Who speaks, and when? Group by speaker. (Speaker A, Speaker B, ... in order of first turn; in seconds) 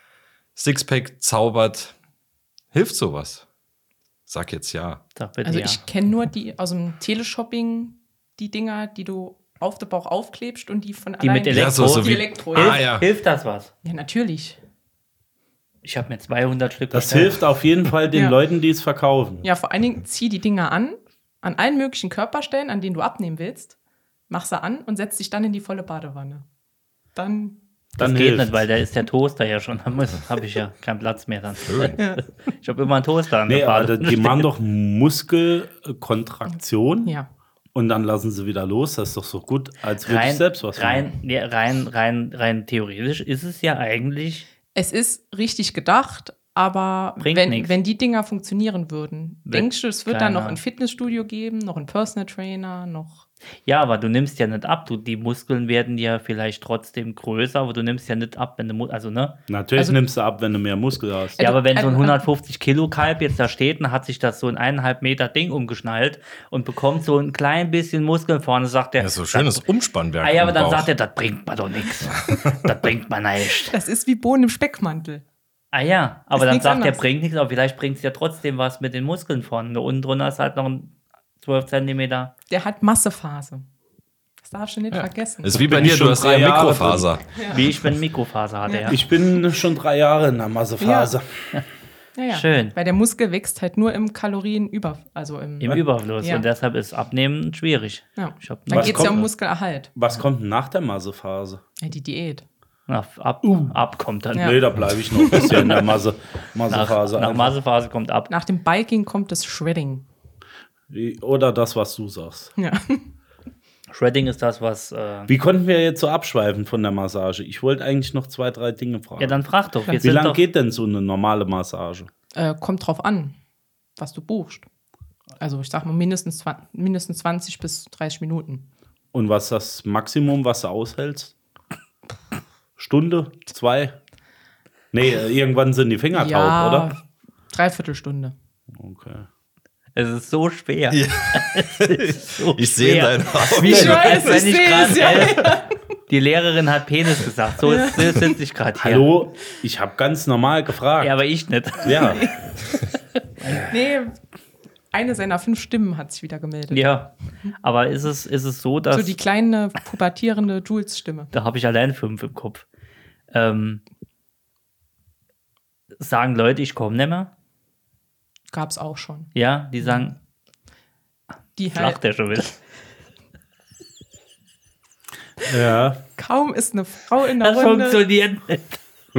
Speaker A: 0.6-1.9, 2.7-3.5, 4.3-5.0, 11.5-13.1, 31.6-32.0, 69.0-70.9, 72.2-72.5, 84.9-87.2, 140.9-144.3
Speaker B: 5.2-5.8, 11.2-13.7, 15.8-17.4, 28.0-34.5, 40.0-44.5, 47.2-47.7, 49.5-50.6, 53.7-59.4, 61.4-69.7, 70.2-73.8, 75.7-82.3, 87.5-89.0, 92.3-92.8, 95.6-99.2, 102.9-104.6, 106.7-108.3, 113.9-115.3, 119.2-120.4, 140.0-145.6, 146.1-149.1, 151.0-152.2, 153.4-153.7, 156.7-159.2, 161.3-162.7, 163.3-163.8, 166.0-167.3, 169.3-170.2, 171.7-172.6, 177.4-178.8
Speaker C: 5.5-12.8, 13.8-14.6, 19.4-23.8, 24.3-26.4, 27.1-27.6, 32.0-32.2, 44.8-53.2, 61.4-62.2, 73.7-75.2, 76.3-77.0, 82.5-83.6, 84.4-85.7, 87.4-87.6, 88.7-89.0, 90.8-91.1, 92.2-96.5, 98.2-99.9, 101.8-102.4, 105.2-105.8, 108.3-110.0, 112.6-113.1, 122.3-123.4, 124.0-124.7, 125.4-128.7, 136.1-138.3, 143.6-145.8, 147.6-148.3, 153.7-154.2, 154.9-156.9, 158.9-161.3, 168.5-170.1, 171.6-172.0, 176.2-178.0
Speaker D: 16.9-19.4, 28.0-28.6, 33.5-37.1, 37.8-41.1, 59.5-61.4, 85.5-87.1, 88.9-91.6, 98.7-99.3, 100.0-101.6, 103.5-103.7, 104.4-107.6, 110.9-112.5, 115.3-119.4, 120.0-122.1, 129.1-131.3, 132.8-134.0, 134.9-136.9, 138.7-139.3, 148.8-151.1, 151.8-152.3, 175.4-176.0